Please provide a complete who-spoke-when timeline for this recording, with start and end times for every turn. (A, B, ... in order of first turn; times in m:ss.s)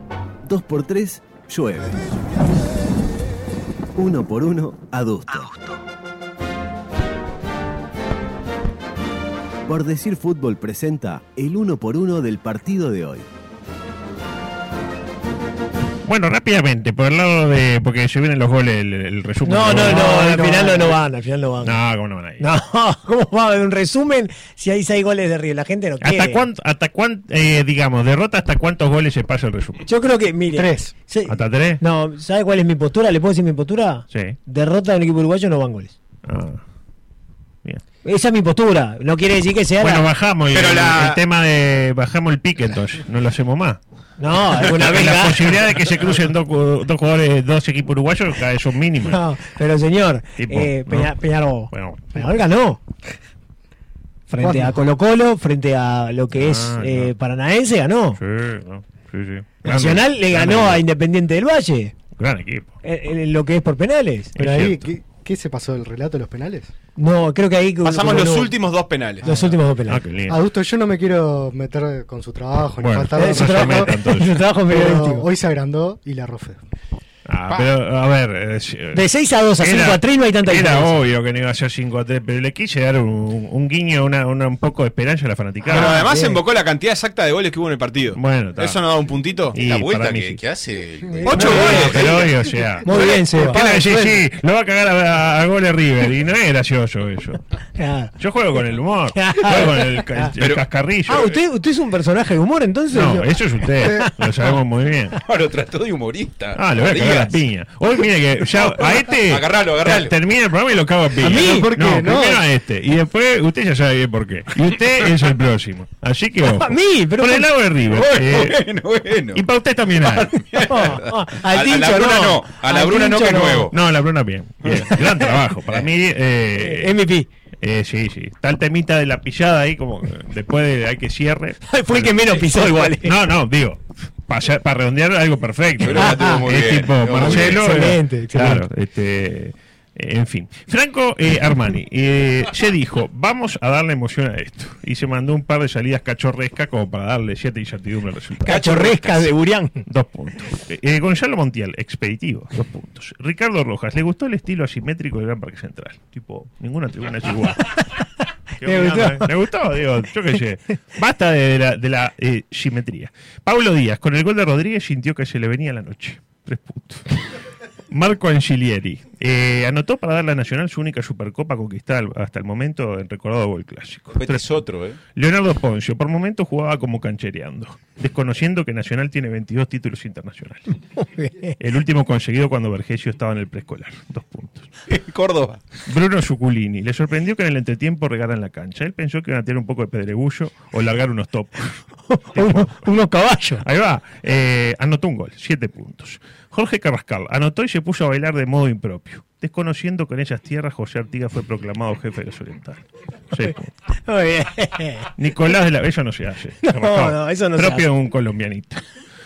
0:00.5-0:02.0 A
0:04.0-0:05.7 A
0:09.7-0:13.3 A
0:16.0-0:20.3 B
0:19.4-0:21.8 C
0:19.8-0:21.0 D
0:21.6-0:22.5 B
0:22.4-0:26.4 C
0:26.0-0:29.9 B
0:29.9-0:35.9 C
0:30.5-0:30.9 D
0:31.3-0:31.8 B
0:34.1-0:34.4 B
0:36.2-0:36.6 B
0:38.0-0:40.1 C
0:39.8-0:43.8 B
0:40.6-0:41.0 E
0:44.2-0:45.6 C
0:44.5-0:49.2 B
0:49.0-0:52.8 C
0:50.4-0:51.2 B
0:51.7-0:52.2 B
0:54.3-0:58.2 C
0:54.4-0:54.8 D
0:56.3-0:57.1 B
0:58.2-1:00.9 B
0:59.6-1:01.9 C
1:02.2-1:02.8 B
1:02.8-1:04.4 C
1:04.4-1:04.9 B
1:04.4-1:06.7 D
1:07.0-1:08.6 C
1:07.8-1:09.2 F
1:08.5-1:08.9 E
1:09.2-1:09.6 D
1:09.2-1:10.0 C
1:09.4-1:10.4 B
1:10.3-1:14.0 D
1:12.8-1:14.4 B
1:13.1-1:15.3 C
1:14.7-1:16.6 D
1:17.3-1:19.0 B
1:18.9-1:21.0 C
1:19.6-1:26.1 B
1:25.7-1:29.6 F
1:25.7-1:33.5 E
1:25.8-1:26.4 C
1:28.1-1:28.8 B
1:29.5-1:30.4 B
1:31.2-1:32.1 D
1:31.2-1:32.2 C
1:31.2-1:31.7 F
1:31.3-1:37.4 B
1:32.8-1:33.6 C
1:33.0-1:34.2 D
1:37.8-1:38.1 C
1:38.2-1:41.4 B
1:39.2-1:40.3 C
1:40.4-1:40.6 E
1:41.1-1:44.0 C
1:42.9-1:45.2 B
1:45.1-1:47.4 E
1:46.5-1:58.7 B
1:48.4-1:50.2 E
1:51.2-1:51.8 C
1:51.2-1:52.4 D
1:56.4-1:57.5 C
1:57.8-1:59.4 E
1:59.3-2:00.9 B
2:00.0-2:03.7 E
2:00.6-2:03.7 C
2:03.7-2:07.0 B
2:04.6-2:05.0 E
2:05.5-2:05.9 E
2:06.5-2:07.3 C
2:07.6-2:28.6 B
2:11.7-2:13.2 C
2:15.8-2:17.7 E
2:16.0-2:16.4 C
2:17.2-2:18.6 C
2:28.5-2:29.3 E
2:28.5-2:29.8 C
2:29.9-2:37.8 B
2:38.6-2:47.2 B
2:38.6-2:39.3 C
2:47.9-3:00.7 B
2:54.2-2:55.0 E
3:01.1-3:01.5 C
3:01.6-3:04.7 B
3:04.9-3:05.6 E
3:05.8-3:12.9 B
3:12.1-3:13.6 C
3:13.6-3:23.7 B
3:24.0-3:25.1 C
3:25.2-3:28.8 B
3:26.6-3:27.9 C